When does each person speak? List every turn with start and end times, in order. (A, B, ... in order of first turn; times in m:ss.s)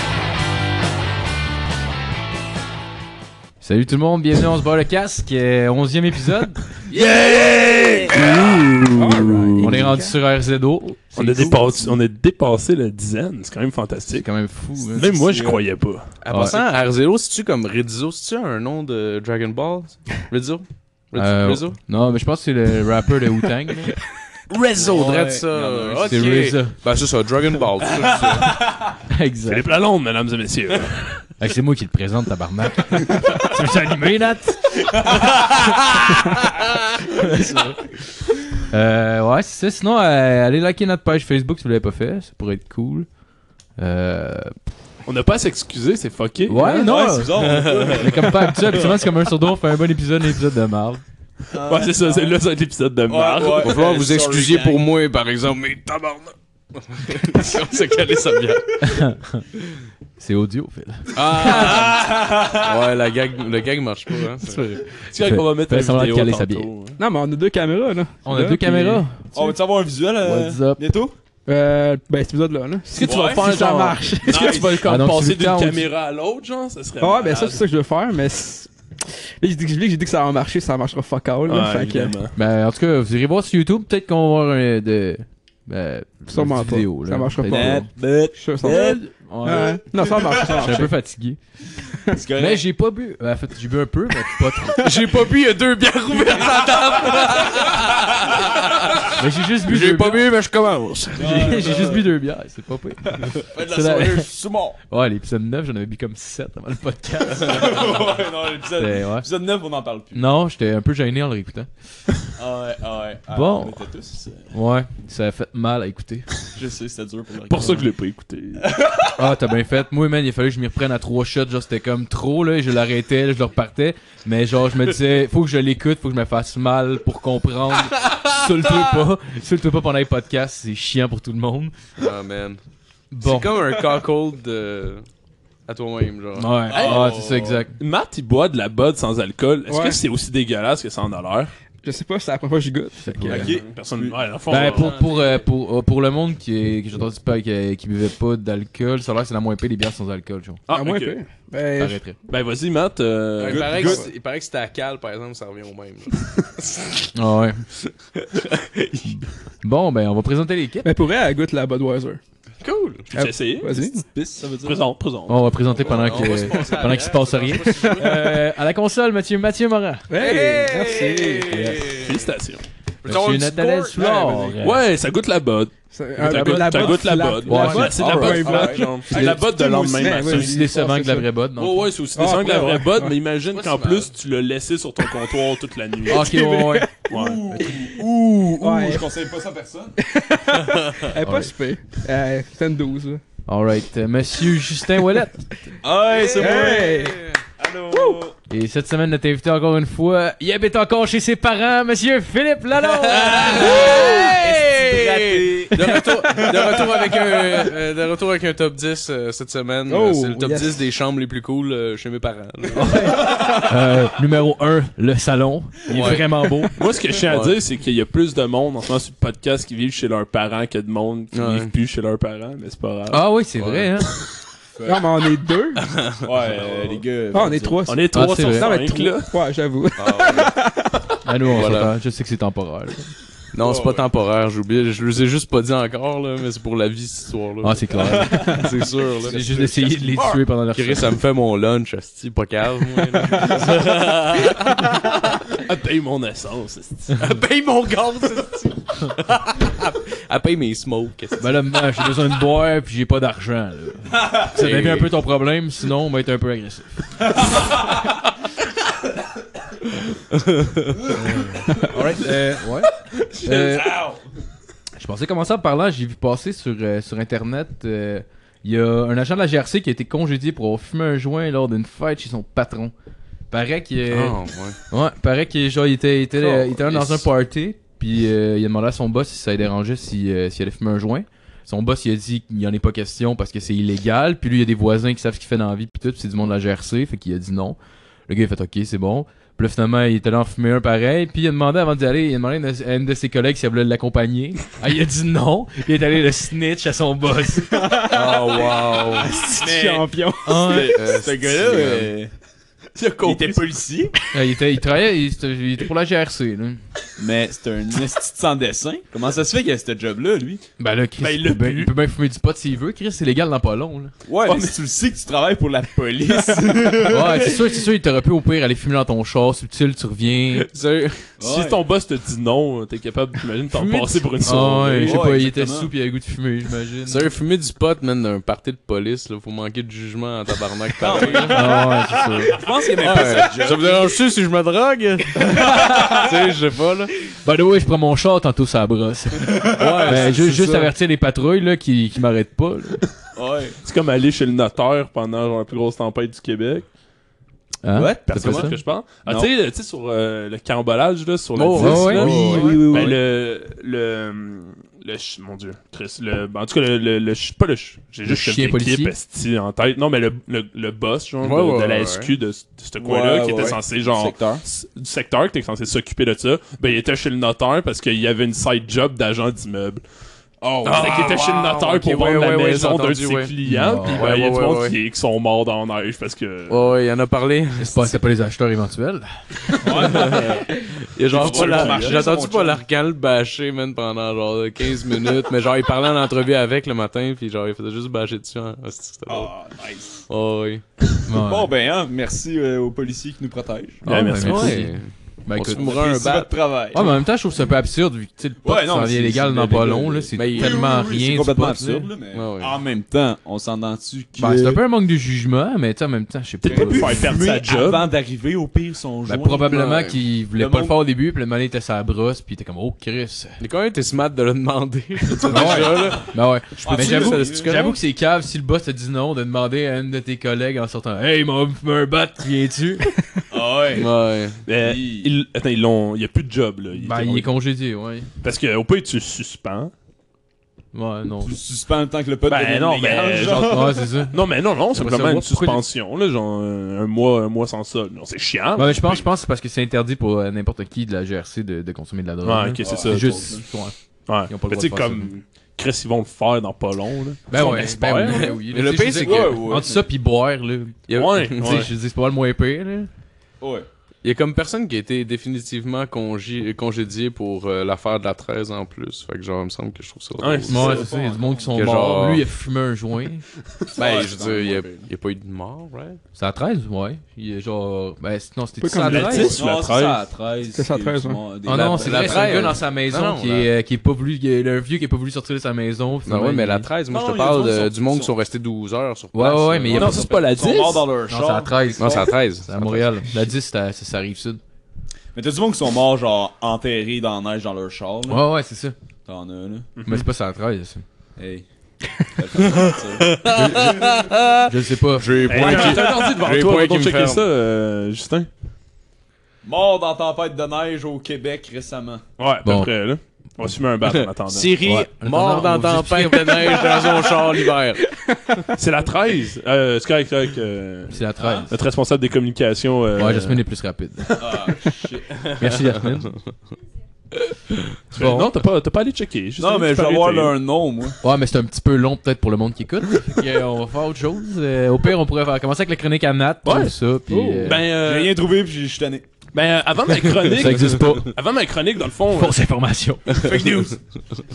0:03.6-0:06.6 A
0:06.9-0:09.8 B
0:08.1-0:08.4 C
0:08.9-0:10.2 D
0:09.6-0:11.9 A
0:11.2-0:14.3 B
0:14.1-0:15.2 A
0:14.9-0:16.1 B
0:15.2-0:15.6 C
0:16.2-0:21.8 E
0:16.3-0:16.6 A
0:21.2-0:24.0 A
0:24.5-0:26.3 C
0:24.8-0:28.6 E
0:26.1-0:26.8 A
0:28.1-0:28.9 C
0:29.1-0:29.7 A
0:29.5-0:31.3 B
0:31.4-0:36.2 A
0:37.1-0:37.8 A
0:38.6-0:43.1 A
0:43.8-0:44.6 A
0:45.1-0:46.8 B
0:46.5-0:51.0 A
0:46.6-0:48.7 C
0:47.4-0:48.0 E
0:51.5-0:52.4 C
0:51.6-0:53.8 B
0:53.1-0:54.9 C
0:53.6-0:58.8 E
0:58.8-0:59.4 A
1:00.2-1:01.9 A
1:01.2-1:04.8 E
1:01.5-1:02.7 C
1:04.4-1:06.7 A
1:05.0-1:07.0 B
1:07.0-1:09.4 D
1:08.2-1:09.2 A
1:09.3-1:11.1 C
1:10.2-1:10.9 A
1:11.5-1:14.6 D
1:12.9-1:17.6 B
1:13.0-1:13.5 C
1:14.3-1:14.8 C
1:14.8-1:15.9 A
1:17.0-1:22.2 D
1:21.5-1:22.3 B
1:22.4-1:27.9 A
1:26.3-1:30.9 D
1:27.5-1:30.8 C
1:28.6-1:29.8 A
1:30.5-1:31.4 A
1:32.1-1:32.6 C
1:32.4-1:34.9 A
1:34.8-1:39.1 E
1:36.4-1:37.5 C
1:39.1-1:40.2 A
1:39.7-1:41.6 E
1:41.1-1:42.0 C
1:41.2-1:44.3 A
1:43.4-1:44.8 C
1:44.9-1:47.9 A
1:47.4-1:50.2 C
1:48.8-1:49.3 A
1:50.1-1:51.7 A
1:52.4-1:54.5 C
1:53.3-1:53.9 A
1:54.5-1:56.3 A
1:56.6-1:57.8 C
1:57.5-1:58.6 B
1:58.6-1:59.1 C
1:59.2-2:11.7 A
2:12.0-2:12.6 E
2:13.1-2:13.5 A
2:13.2-2:15.0 E
2:15.7-2:17.0 E
2:16.4-2:17.7 A
2:16.7-2:17.6 C
2:16.8-2:17.2 B
2:17.8-2:21.5 B
2:19.7-2:20.0 D
2:21.8-2:23.6 D
2:23.0-2:23.6 A
2:23.3-2:24.2 C
2:23.3-2:25.4 B
2:24.5-2:30.6 A
2:24.7-2:25.3 E
2:30.7-2:31.2 B
2:30.7-2:32.0 D
2:31.8-2:32.2 A
2:32.3-2:33.9 B
2:33.4-2:37.1 E
2:33.4-2:34.0 C
2:37.2-2:37.6 A
2:38.2-2:39.0 E
2:39.0-2:40.9 A
2:40.8-2:42.2 D
2:42.6-2:43.1 E
2:43.1-2:43.8 B
2:43.1-2:44.0 D
2:43.7-2:44.8 C
2:44.6-2:45.6 B
2:45.3-2:50.1 A
2:45.8-2:48.2 E
2:47.7-2:48.3 D
2:50.1-2:51.8 D
2:50.2-2:52.1 E
2:51.5-2:51.8 A
2:51.9-2:52.6 B
2:53.0-2:54.3 E
2:53.0-2:54.8 A
2:54.6-3:00.7 B
2:55.9-3:01.3 D
2:56.3-2:56.8 A
2:57.4-2:57.9 A
2:57.9-2:59.4 C
3:00.2-3:01.9 A
3:01.6-3:06.4 B
3:02.2-3:03.1 D
3:03.5-3:04.1 E
3:06.1-3:06.9 A
3:06.1-3:06.9 D
3:07.1-3:07.4 B
3:07.1-3:10.0 C
3:08.6-3:09.0 D
3:10.0-3:13.2 D
3:11.2-3:11.5 A
3:13.5-3:15.5 A
3:15.8-3:18.4 C
3:16.2-3:17.4 E
3:16.4-3:17.2 D
3:17.9-3:18.2 D
3:18.5-3:24.1 A
3:23.0-3:27.3 C
3:23.1-3:33.3 E
3:29.9-3:30.8 D
3:32.8-3:36.7 A
3:35.9-3:36.5 E
3:36.8-3:43.3 B
3:37.1-3:37.6 E
3:41.3-3:41.7 E
3:43.1-3:44.2 A
3:43.6-3:43.9 E
3:44.8-3:45.1 C
3:44.8-3:45.8 D
3:45.8-3:46.2 E
3:46.2-3:47.8 C
3:47.3-3:51.0 D
3:47.9-3:49.4 B
3:48.1-3:48.8 A
3:50.0-3:50.5 E
3:51.2-3:53.1 A
3:51.5-3:51.9 E
3:53.5-3:59.4 E
3:53.6-3:54.1 C
3:57.6-3:58.6 A
3:58.0-4:00.4 C
3:59.3-4:01.1 A
4:00.7-4:05.3 E
4:05.6-4:07.2 B
4:07.1-4:11.8 E
4:11.4-4:17.4 A
4:14.6-4:15.2 E
4:20.1-4:21.0 E
4:21.1-4:22.9 A
4:23.4-4:24.2 C
4:23.4-4:23.9 A
4:25.0-4:32.9 A
4:33.5-4:34.4 A
4:34.1-4:34.8 E
4:34.9-4:57.8 A
4:36.4-4:37.2 E
4:57.7-5:00.8 D
4:58.1-4:59.3 E
4:58.2-4:58.7 C
4:59.5-5:02.3 C
5:00.5-5:01.3 A
5:01.0-5:02.1 E
5:03.0-5:03.6 B
5:03.2-5:04.1 C
5:04.3-5:06.8 A
5:07.2-5:10.6 C
5:10.8-5:14.1 A
5:11.2-5:11.9 B
5:14.3-5:17.6 C
5:14.4-5:14.7 B
5:17.1-5:20.7 A
5:20.6-5:21.2 E
5:21.4-5:21.8 C
5:21.4-5:25.3 B
5:24.4-5:27.3 A
5:25.0-5:25.9 C
5:27.1-5:31.6 E
5:31.0-5:31.8 C
5:31.5-5:32.6 A
5:32.5-5:34.2 C
5:33.0-5:37.2 E
5:37.4-5:43.0 A
5:39.7-5:40.9 E
5:39.8-5:40.8 C
5:43.4-5:43.8 C
5:43.8-5:46.9 B
5:47.8-5:48.8 A
5:47.9-5:48.7 C
5:48.3-6:10.0 B
5:51.6-5:53.1 E
5:51.8-5:53.2 A
5:52.4-5:53.1 C
5:58.2-5:59.2 A
6:01.4-6:02.4 E
6:03.0-6:04.6 C
6:10.6-6:11.5 C
6:10.8-6:13.5 E
6:10.9-6:16.9 B
6:13.6-6:14.3 A
6:14.1-6:15.0 E
6:16.7-6:18.2 E
6:17.8-6:20.2 A
6:19.8-6:20.6 C
6:20.0-6:29.5 E
6:21.3-6:22.2 B
6:21.3-6:22.8 C
6:29.3-6:30.2 C
6:30.3-6:30.8 E
6:31.3-6:31.7 A
6:31.3-6:34.0 C
6:34.0-6:34.9 B
6:34.1-6:35.9 A
6:34.4-6:36.6 E
6:35.7-6:37.1 C
6:36.9-6:42.1 A
6:38.6-6:44.8 C
6:40.4-6:40.9 E
6:42.3-6:42.8 E
6:44.4-6:47.3 A
6:46.6-6:48.0 B
6:46.7-6:49.9 C
6:49.3-6:53.6 A
6:49.7-6:50.2 E
6:50.6-6:51.0 C
6:53.6-6:56.3 E
6:55.4-7:03.1 A
6:56.8-6:57.8 C
6:56.9-6:58.0 E
6:56.9-6:57.5 B
7:03.5-7:04.1 C
7:03.9-7:04.6 E
7:04.7-7:07.5 B
7:04.8-7:05.3 C
7:06.9-7:08.3 A
7:08.4-7:09.9 B
7:10.9-7:11.6 A
7:11.4-7:14.1 C
7:12.5-7:19.3 B
7:13.4-7:15.8 A
7:18.8-7:23.9 A
7:22.4-7:23.6 B
7:22.8-7:23.6 C
7:24.3-7:28.6 B
7:24.5-7:25.3 A
7:27.5-7:33.1 A
7:27.6-7:29.6 E
7:29.1-7:30.1 C
7:31.1-7:31.9 E
7:31.1-7:31.9 B
7:33.6-7:33.9 C
7:34.2-7:41.1 E
7:40.4-7:41.1 B
7:40.7-7:43.5 A
7:40.8-7:41.8 C
7:41.7-7:42.4 E
7:43.9-7:45.1 C
7:44.0-7:46.2 E
7:46.4-7:49.6 A
7:48.8-7:49.6 D
7:49.1-7:50.2 B
7:49.5-7:52.8 C
7:50.7-7:51.4 D
7:51.6-7:56.9 A
7:51.7-7:53.7 E
7:56.3-8:00.2 E
7:57.1-7:58.3 C
7:59.3-8:00.3 A
7:59.9-8:02.3 C
7:59.9-8:01.1 B
8:01.3-8:04.6 A
8:02.0-8:03.1 E
8:05.3-8:08.4 C
8:08.3-8:09.0 A
8:09.3-8:09.9 C
8:10.0-8:10.3 B
8:10.1-8:11.0 A
8:11.4-8:11.6 C
8:12.3-8:14.1 C
8:12.8-8:17.5 E
8:13.6-8:13.9 A
8:14.7-8:16.0 A
8:15.5-8:18.5 B
8:19.6-8:22.2 C
8:22.4-8:24.8 B
8:22.6-8:22.9 A
8:24.1-8:28.1 E
8:24.8-8:27.1 A
8:28.7-8:33.6 B
8:31.1-8:31.7 A
8:33.2-8:34.7 A
8:34.4-8:35.5 C
8:35.6-8:36.4 A
8:38.1-8:40.6 B
8:38.1-8:38.5 A
8:39.6-8:41.2 C
8:41.2-8:47.8 A
8:46.6-8:48.4 B
8:47.8-8:49.3 C
8:49.5-8:52.6 B
8:50.4-8:51.3 A
8:52.3-8:53.8 A
8:53.4-8:53.9 B